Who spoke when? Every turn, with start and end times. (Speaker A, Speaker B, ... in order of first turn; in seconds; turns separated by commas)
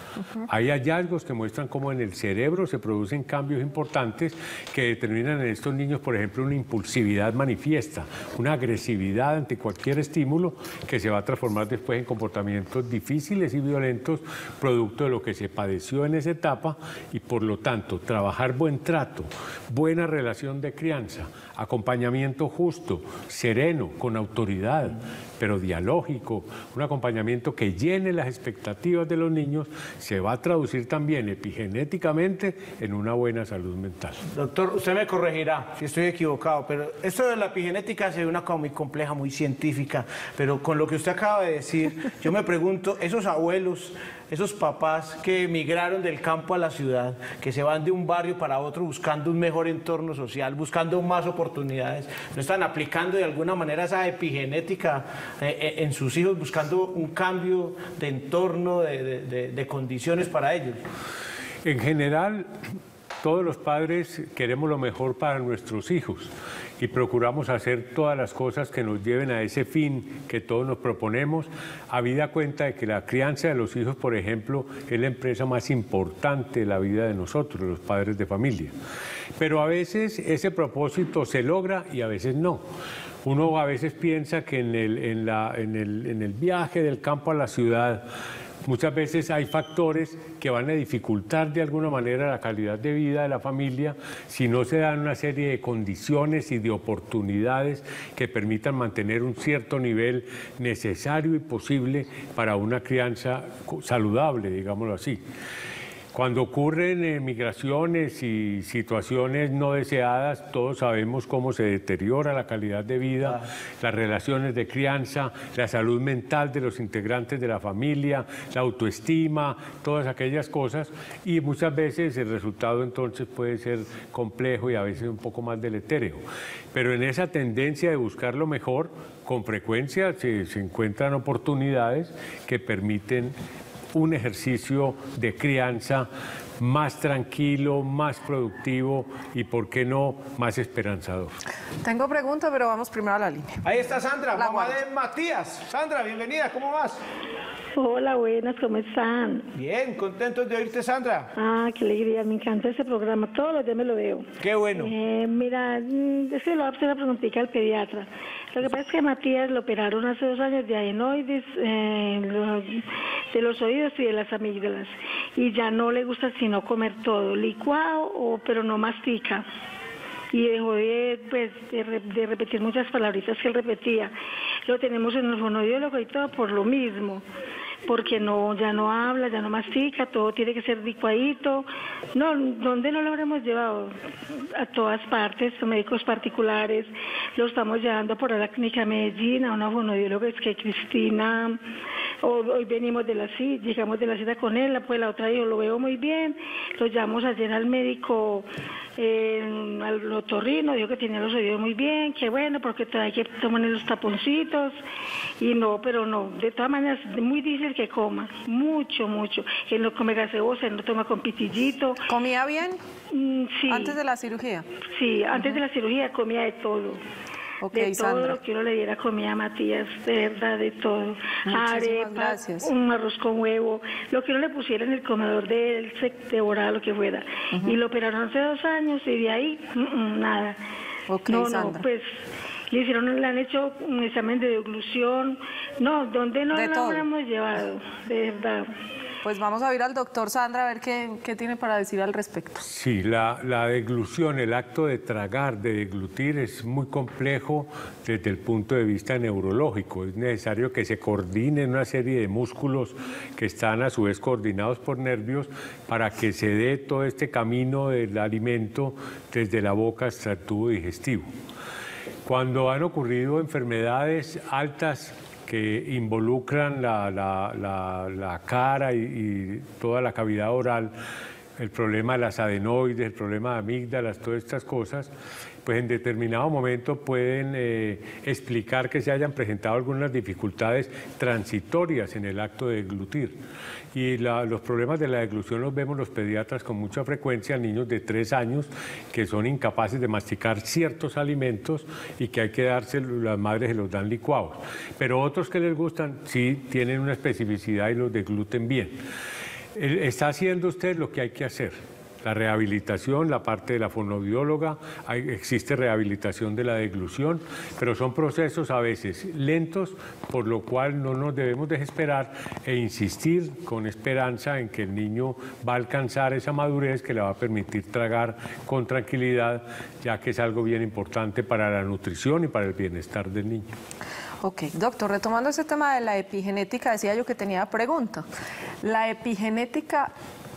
Speaker A: 0.5-34.2, Speaker B: 34.3-60.8, Speaker A: 61.6-62.5, Speaker A: 63.2-78.7, Speaker A: 79.4-82.6, Speaker A: 83.2-88.1, Speaker A: 88.6-105.2, Speaker A: 106.1-133.3, Speaker A: 133.9-136.1, Speaker A: 136.6-141.4, Speaker C: 141.8-143.6, Speaker B: 143.6-147.0, Speaker C: 144.3-144.8, Speaker D: 147.8-149.5, Speaker B: 149.6-151.3, Speaker D: 151.4-169.5, Speaker B: 154.4-154.9, Speaker D: 170.3-174.1, Speaker D: 174.7-177.2, Speaker D: 177.9-184.0, Speaker D: 184.6-191.6, Speaker D: 192.2-204.8, Speaker D: 205.4-212.0, Speaker C: 212.1-212.8, Speaker D: 213.1-214.0, Speaker C: 213.7-214.7, Speaker D: 214.9-217.0, Speaker C: 217.6-218.4, Speaker D: 217.7-230.6, Speaker C: 221.5-222.7, Speaker C: 231.1-231.8, Speaker D: 231.3-232.2, Speaker D: 232.7-238.7, Speaker C: 236.5-237.1, Speaker C: 239.2-242.7, Speaker A: 242.7-261.3, Speaker A: 262.2-270.9, Speaker A: 271.6-275.1, Speaker A: 275.6-283.4, Speaker A: 283.9-299.0, Speaker A: 299.8-323.7, Speaker C: 324.4-328.2, Speaker C: 328.8-330.1